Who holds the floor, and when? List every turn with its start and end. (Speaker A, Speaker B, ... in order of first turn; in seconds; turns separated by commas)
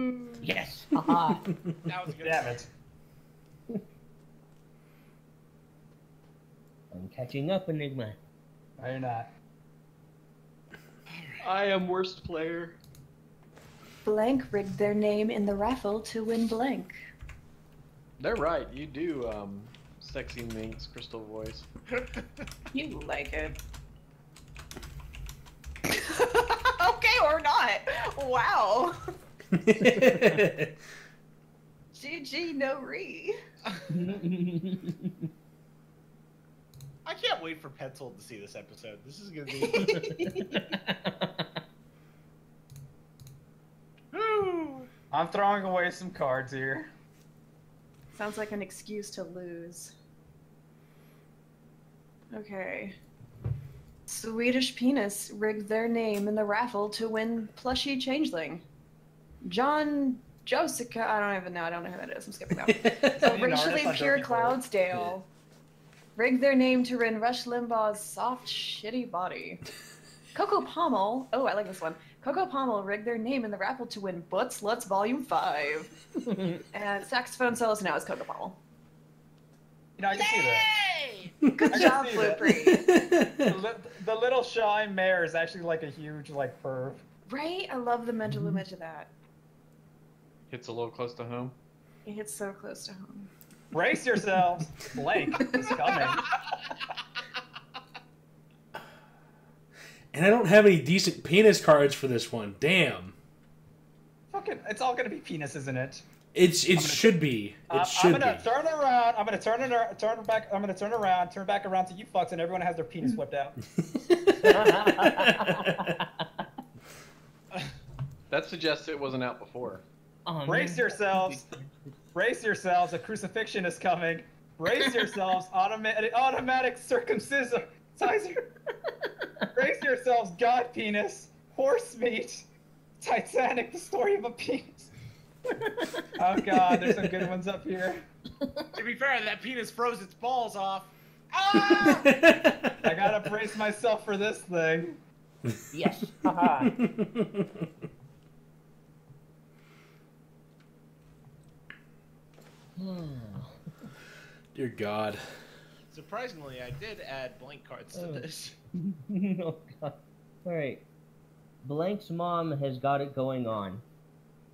Speaker A: 0.4-1.4, Speaker B: 1.5-1.8, Speaker C: 1.9-2.6, Speaker D: 2.2-2.7, Speaker A: 6.9-8.2, Speaker D: 8.8-9.3, Speaker C: 11.1-11.4, Speaker E: 11.4-12.8, Speaker F: 14.0-16.9, Speaker E: 18.2-21.7, Speaker F: 22.7-23.6, Speaker F: 25.9-29.0, Speaker B: 29.5-30.7, Speaker A: 30.0-30.4, Speaker F: 31.9-33.4, Speaker A: 33.9-35.3, Speaker C: 37.0-40.1, Speaker F: 39.6-40.6, Speaker A: 39.8-41.6, Speaker C: 44.1-44.9, Speaker D: 45.1-46.9, Speaker F: 48.1-49.9, Speaker F: 52.3-52.9, Speaker F: 54.1-58.6, Speaker F: 59.4-65.3, Speaker B: 62.6-63.2, Speaker D: 63.1-64.6, Speaker F: 66.2-69.6, Speaker F: 70.3-75.9, Speaker A: 76.2-76.6, Speaker F: 76.7-78.5, Speaker D: 80.0-80.7, Speaker C: 80.1-81.3, Speaker B: 81.4-81.9, Speaker F: 81.5-82.8, Speaker D: 81.7-82.5, Speaker B: 82.6-83.6, Speaker D: 83.5-87.0, Speaker F: 87.3-89.1, Speaker E: 90.5-91.5, Speaker F: 92.0-93.3, Speaker D: 93.7-96.3, Speaker B: 100.1-103.1, Speaker D: 104.3-106.0, Speaker B: 106.3-108.4, Speaker D: 106.7-113.6, Speaker B: 113.9-115.9, Speaker A: 114.4-116.2, Speaker E: 118.3-119.8, Speaker A: 120.2-122.0, Speaker D: 120.5-121.5, Speaker D: 122.1-128.5, Speaker D: 129.5-132.5, Speaker D: 133.0-134.9, Speaker A: 135.5-136.0, Speaker D: 136.2-138.0, Speaker A: 138.4-138.7, Speaker C: 138.7-142.1, Speaker B: 141.5-142.8, Speaker D: 142.8-145.0, Speaker A: 145.7-146.7, Speaker B: 146.6-147.6, Speaker A: 152.8-153.5, Speaker B: 154.5-155.2, Speaker C: 155.9-158.5, Speaker A: 157.9-158.2, Speaker A: 158.8-160.8, Speaker A: 161.6-163.8